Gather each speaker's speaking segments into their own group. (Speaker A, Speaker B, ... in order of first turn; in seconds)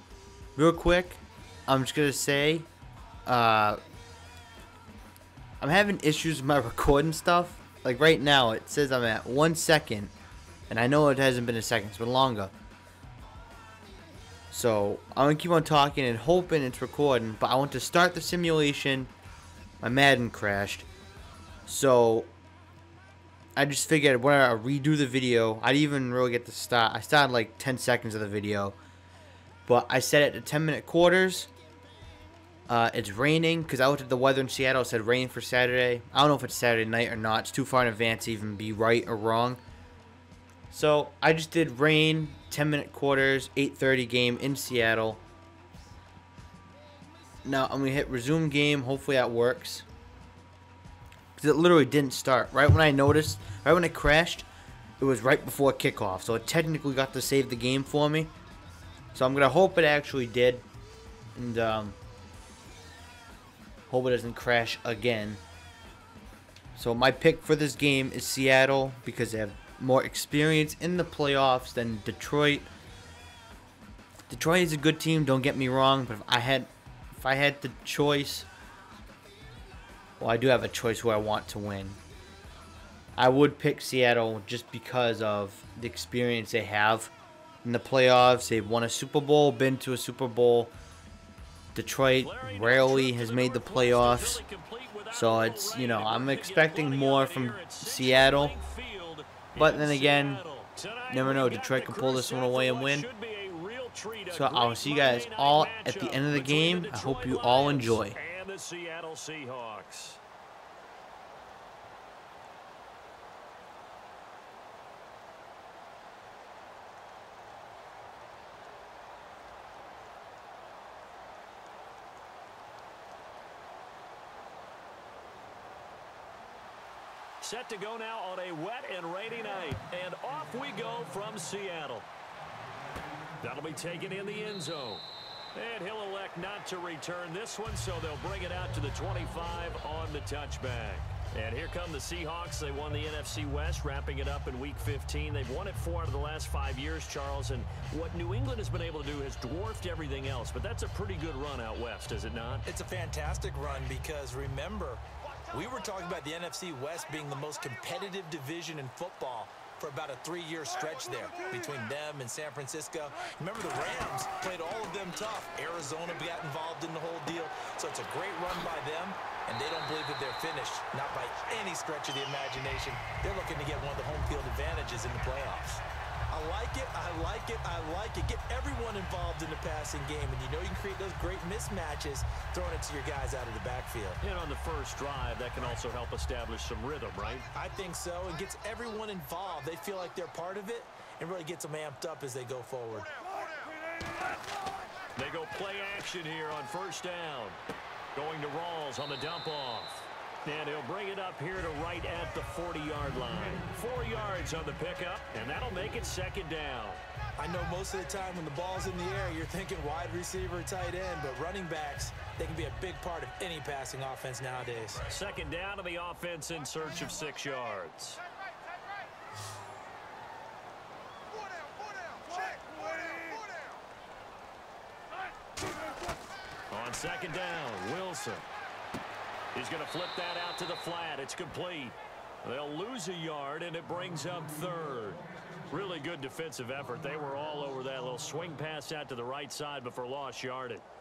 Speaker A: 0.6-2.7, 3.2-3.8, 5.6-10.1, 10.7-12.5, 14.5-19.1, 19.8-20.9, 21.7-22.3, 23.6-28.8, 29.7-31.5, 32.7-39.6, 40.7-45.2, 47.4-49.9, 51.4-54.5, 55.0-58.3, 59.1-60.6, 61.3-62.0, 63.9-65.4, 66.7-72.7, 74.3-78.5, 80.2-82.0, 83.2-87.1, 87.6-90.7, 91.7-94.4, 95.1-98.5, 99.6-100.4, 101.1-103.1, 104.3-108.2
Speaker B: 92.2-110.2, 127.4-132.1, 133.4-152.6, 184.2-187.5, 195.2-197.6, 198.1-207.0, 215.1-218.2, 226.7-228.4, 229.5-240.8
Speaker C: 152.7-184.2, 187.5-193.1, 207.4-215.0